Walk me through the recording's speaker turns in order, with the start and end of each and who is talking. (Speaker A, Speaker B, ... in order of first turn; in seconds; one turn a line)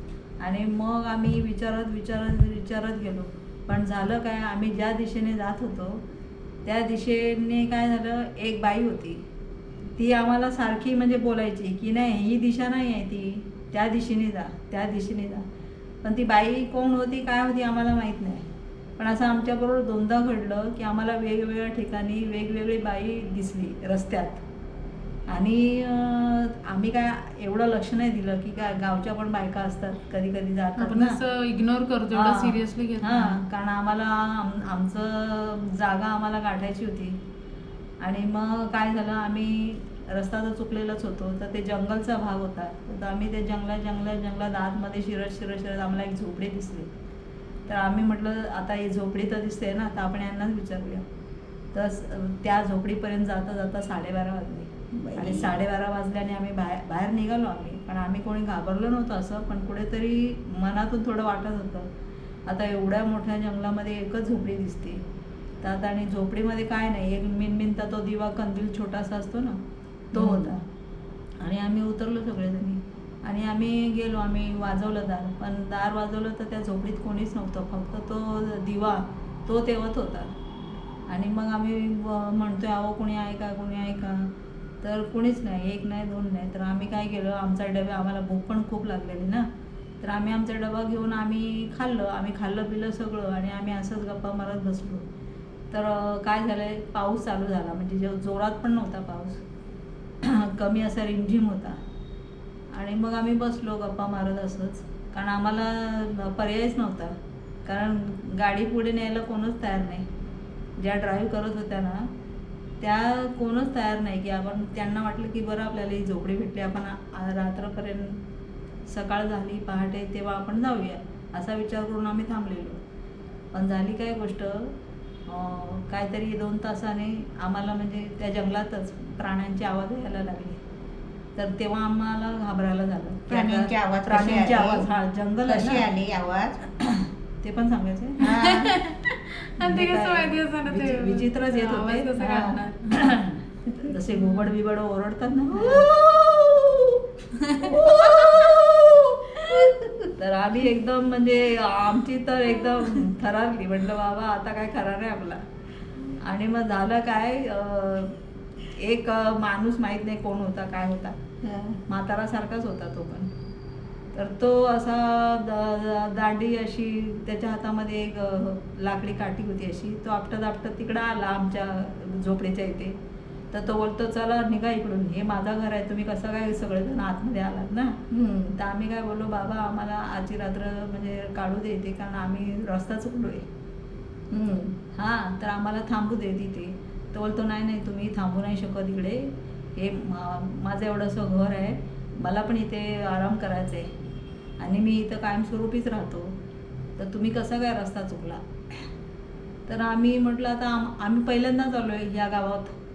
Speaker A: 0.4-6.0
Speaker A: 6.6-9.2
Speaker A: 10.0-15.5
Speaker A: 16.0-18.5
Speaker A: 19.0-24.4
Speaker A: 25.3-31.2
Speaker B: 30.8-33.4
Speaker A: 32.1-37.2
Speaker A: 38.0-46.9
Speaker A: 47.7-51.0
Speaker A: 51.7-61.9
Speaker C: 54.9-55.5
Speaker A: 62.5-65.0
Speaker A: 65.6-69.6
Speaker A: 70.1-70.6
Speaker C: 70.1-70.5
Speaker A: 71.4-80.3
Speaker A: 81.1-89.5
Speaker A: 90.0-95.1
Speaker A: 95.7-99.4
Speaker A: 100.2-101.8
Speaker A: 102.7-110.1
Speaker A: 110.8-112.1
Speaker A: 112.8-118.2
Speaker A: 118.9-122.8
Speaker A: 123.5-124.8
Speaker A: 125.3-130.6
Speaker A: 131.3-135.9
Speaker C: 133.3-134.9
Speaker C: 135.5-136.6
Speaker A: 136.8-138.2
Speaker C: 138.2-138.8
Speaker B: 138.2-143.0
Speaker A: 139.6-147.0
Speaker C: 145.5-145.9
Speaker A: 147.6-149.3
Speaker C: 147.6-148.9
Speaker C: 149.5-150.1
Speaker A: 150.2-155.4
Speaker A: 156.2-158.2
Speaker A: 158.7-161.2
Speaker C: 161.4-161.8
Speaker A: 161.9-163.3
Speaker A: 164.1-173.0
Speaker A: 173.5-178.0
Speaker C: 178.1-178.6
Speaker A: 178.6-183.5
Speaker C: 184.3-184.8
Speaker A: 184.9-193.9
Speaker A: 194.6-196.3
Speaker A: 197.0-198.4
Speaker A: 199.7-202.8